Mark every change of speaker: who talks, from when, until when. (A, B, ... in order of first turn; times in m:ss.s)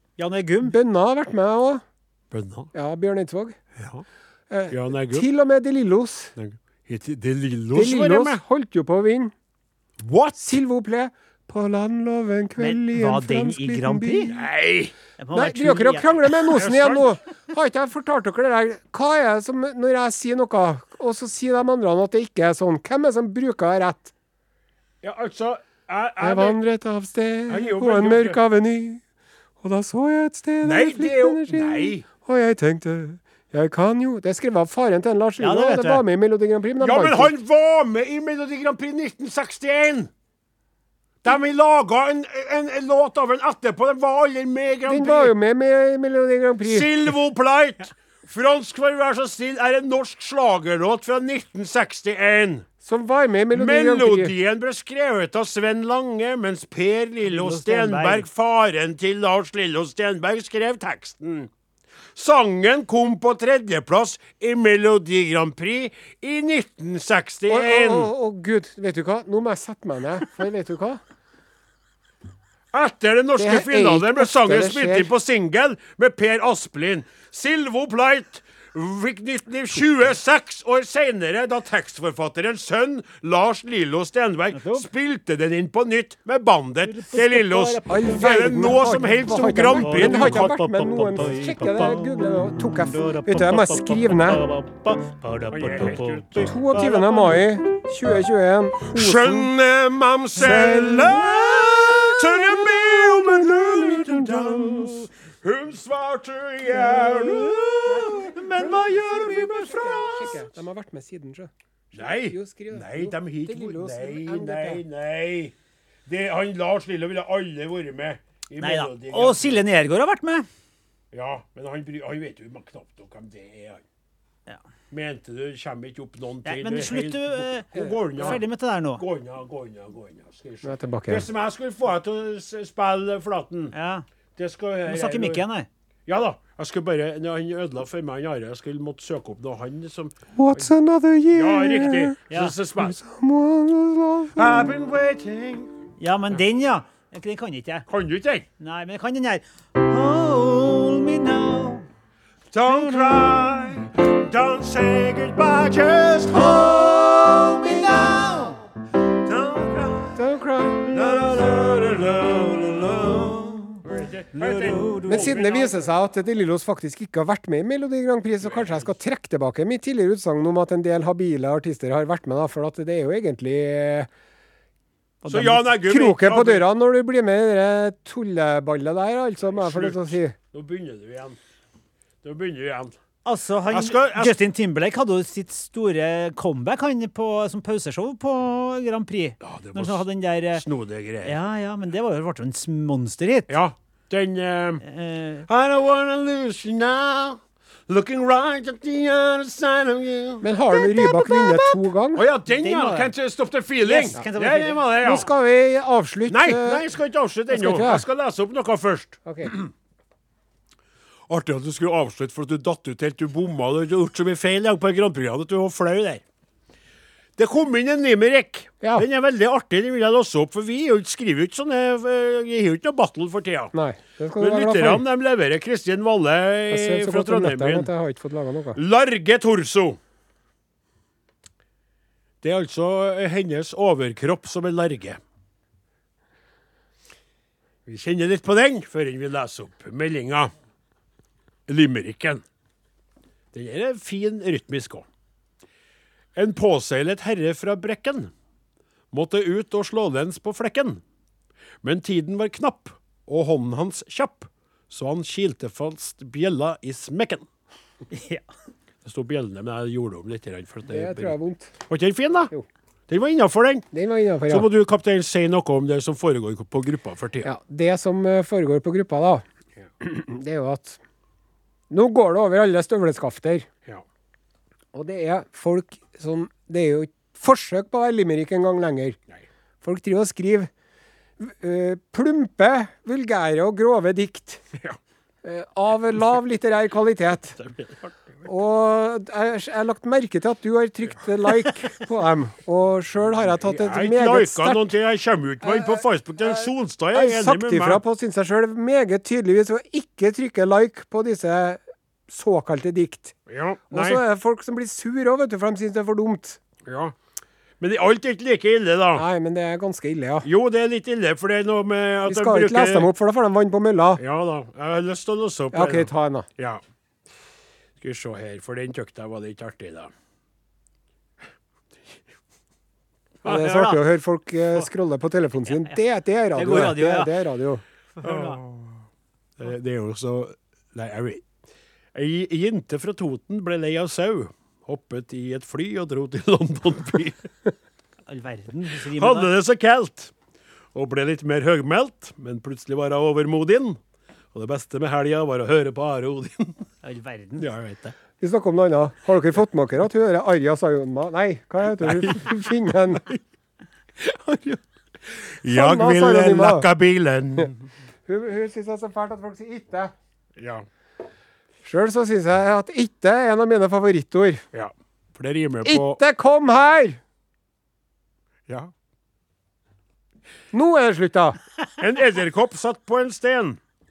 0:00.2-0:00.8 A
0:00.6-0:01.8 B
0:02.3-0:02.7 C
0:02.7-0:03.6 B
0:03.8-0:04.0 C
0:04.5-0:06.3 B
0:04.7-0:05.3 C
0:06.4-0:08.4 C
0:07.7-0:09.3 B
0:10.0-0:10.5 C
0:10.4-0:14.4 B
0:12.6-0:14.3 A
0:14.3-0:14.9 C
0:15.2-0:16.5 A
0:15.3-0:24.1 B
0:16.6-0:17.1 C
0:25.0-0:26.6 C
0:26.2-0:29.0 B
0:27.5-0:28.4 C
0:29.6-0:37.3 B
0:30.6-0:32.0 C
0:35.4-0:36.0 A
0:36.8-0:40.1 C
0:41.2-0:45.3 C
0:44.8-0:46.9 B
0:46.6-0:52.7 C
0:52.8-0:54.3 B
0:53.5-1:01.5 C
0:57.2-0:58.2 A
1:02.2-1:08.1 C
1:07.5-1:11.0 B
1:12.7-1:32.0 C
1:13.4-1:15.1 B
1:24.5-1:24.9 A
1:26.8-1:28.6 A
1:27.9-1:34.4 B
1:29.8-1:30.7 A
1:31.2-1:36.3 A
1:35.5-1:37.4 C
1:36.4-1:39.5 B
1:38.9-1:50.5 C
1:40.4-1:45.0 B
1:46.7-1:54.8 B
1:51.9-1:55.5 C
1:56.1-1:59.6 C
1:58.6-2:00.5 A
2:01.1-2:03.8 C
2:04.9-2:08.4 C
2:06.4-2:09.0 A
2:09.0-2:13.7 C
2:10.6-2:11.3 B
2:13.7-2:14.0 A
2:14.4-2:15.4 C
2:14.8-2:15.7 A
2:16.1-2:20.7 C
2:20.3-2:22.2 B
2:21.3-2:23.0 C
2:22.8-2:24.5 B
2:24.4-2:25.7 C
2:26.0-2:27.9 A
2:27.9-2:28.4 C
2:28.6-2:31.9 A
2:32.5-2:38.5 C
2:32.7-2:33.2 B
2:36.4-2:38.6 A
2:39.2-2:40.2 C
2:40.1-2:41.0 B
2:40.8-2:45.8 C
2:44.3-2:45.5 A
2:45.0-2:54.1 B
2:48.4-2:48.9 C
2:55.2-2:55.6 A
2:55.3-2:56.7 C
2:55.8-3:00.4 B
2:59.6-3:01.4 C
3:02.2-3:03.0 C
3:03.2-3:10.6 A
3:03.7-3:04.3 C
3:09.4-3:10.0 C
3:10.5-3:11.4 C
3:11.2-3:13.6 A
3:13.5-3:14.8 C
3:14.8-3:15.5 A
3:15.5-3:25.3 C
3:20.4-3:22.2 B
3:22.5-3:23.1 A
3:23.8-3:24.9 A
3:25.0-3:26.8 B
3:26.3-3:29.7 C
3:27.5-3:28.0 B
3:29.2-3:29.5 B
3:31.3-3:36.2 C
3:37.4-3:43.7 C
3:38.8-3:39.1 B
3:43.7-3:45.0 B
3:44.4-3:47.9 C
3:46.7-3:48.8 B
3:48.7-3:50.0 C
3:52.4-3:55.2 C
3:57.8-4:00.5 C
4:01.7-4:02.4 C
4:03.5-4:05.0 C
4:06.4-4:08.3 C
4:09.1-4:11.0 C
4:11.8-4:17.4 C
4:18.1-4:18.4 A
4:19.0-4:21.4 C
4:20.9-4:21.7 B
4:21.9-4:22.5 C
4:23.1-4:23.8 C
4:23.9-4:24.7 B
4:24.5-4:27.5 C
4:27.4-4:29.4 B
4:30.0-4:31.0 B
4:31.9-4:33.7 B
4:34.9-4:39.2 B
4:39.8-4:40.7 B
4:41.4-4:44.6 B
4:45.4-4:47.6 B
4:47.6-4:48.1 C
4:48.4-4:54.8 B
4:53.6-4:58.0 C
4:55.6-5:03.4 B
5:03.5-5:04.2 C
5:03.9-5:06.6 B
5:06.8-5:07.1 C
5:07.8-5:09.2 C
5:09.1-5:10.5 B
5:10.4-5:13.1 C
5:12.3-5:14.2 B
5:14.2-5:16.8 C
5:15.7-5:16.5 B
5:18.0-5:20.1 C
5:23.4-5:24.0 A
5:23.4-5:27.8 B
5:25.6-5:26.0 A
5:26.5-5:27.3 A
5:28.2-5:28.6 A
5:28.2-5:29.0 C
5:29.6-5:31.4 C
5:32.1-5:37.5 C
5:38.3-5:39.5 A
5:39.1-5:40.3 C
5:40.9-5:44.0 C
5:44.5-5:46.8 C
5:47.0-5:47.6 A
5:47.6-5:48.1 C
5:48.4-5:53.2 B
5:52.0-5:52.4 C
5:54.2-5:54.8 C
5:55.6-5:57.8 C
5:55.6-5:56.9 B
5:58.3-6:00.1 B
6:00.6-6:00.8 C
6:01.8-6:04.6 B
6:04.7-6:06.2 C
6:05.8-6:07.2 B
6:10.7-6:11.6 B
6:12.0-6:13.8 C